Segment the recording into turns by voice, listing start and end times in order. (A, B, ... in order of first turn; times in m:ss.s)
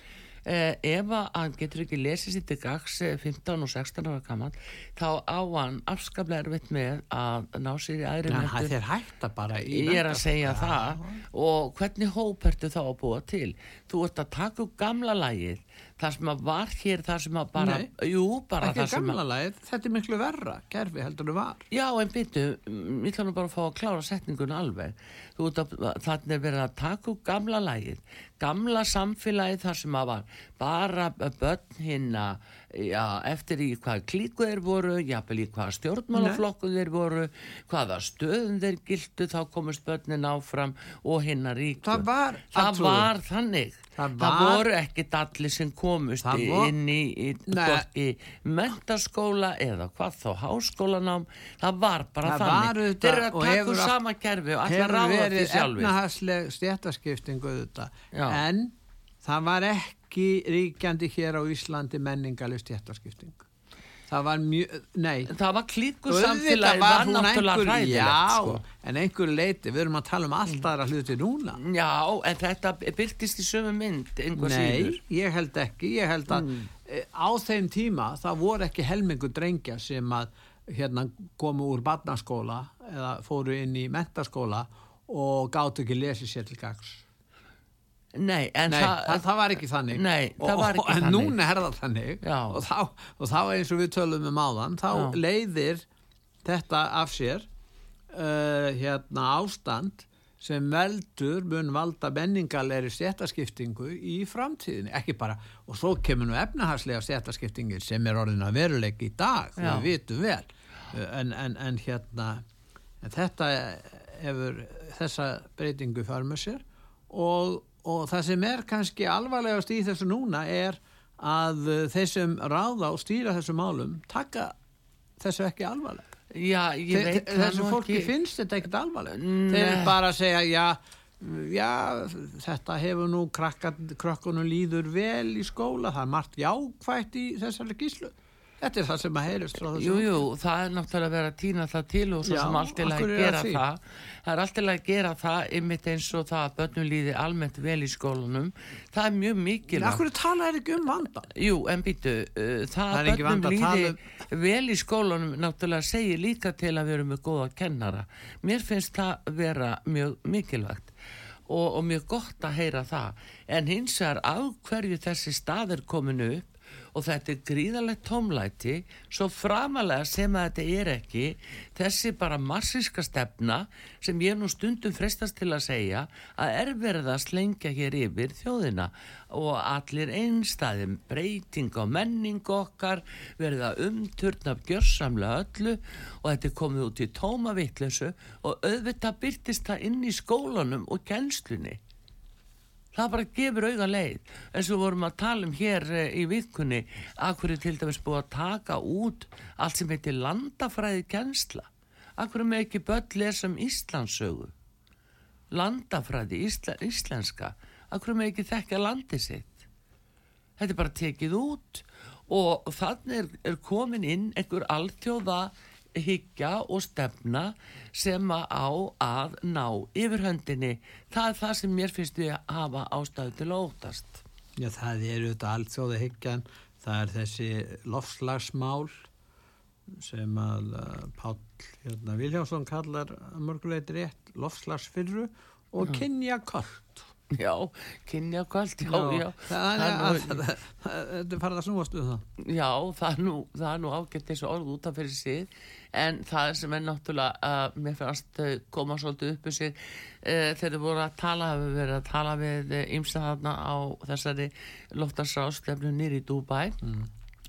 0:00.4-0:08.8 A
0:08.2-0:11.2 B
0:09.5-0:19.2 A
0:17.5-0:17.9 B
0:18.6-0:21.6 B
0:21.7-0:56.0 A
0:36.1-0:36.4 B
0:41.8-0:43.1 B
0:44.0-0:44.6 B
0:46.2-0:46.7 B
0:47.5-0:47.8 B
0:52.2-0:54.0 B
0:54.6-1:03.4 B
0:58.1-0:58.4 A
1:04.1-1:05.3 B
1:05.2-1:08.6 A
1:06.1-1:11.6 B
1:11.5-1:15.0 A
1:14.3-1:27.0 B
1:16.3-1:16.7 A
1:28.1-1:31.4 A
1:28.7-1:35.8 B
1:32.2-1:32.6 A
1:34.9-1:35.2 A
1:36.4-1:37.4 B
1:38.1-1:52.4 B
1:49.6-1:49.9 A
1:53.0-2:04.5 B
2:05.2-2:06.0 B
2:06.3-2:08.1 A
2:06.9-2:20.2 B
2:09.1-2:10.0 A
2:19.6-2:30.1 A
2:22.2-2:23.6 B
2:29.7-2:31.3 B
2:31.3-2:40.9 A
2:32.9-2:34.0 B
2:41.5-3:11.8 A
3:12.9-3:24.5 A
3:25.5-3:29.7 A
3:30.6-3:44.2 A
3:44.6-3:49.0 B
3:50.0-3:57.1 B
3:57.3-4:00.4 A
3:58.8-4:02.2 B
4:02.4-4:16.8 A
4:16.8-4:17.1 B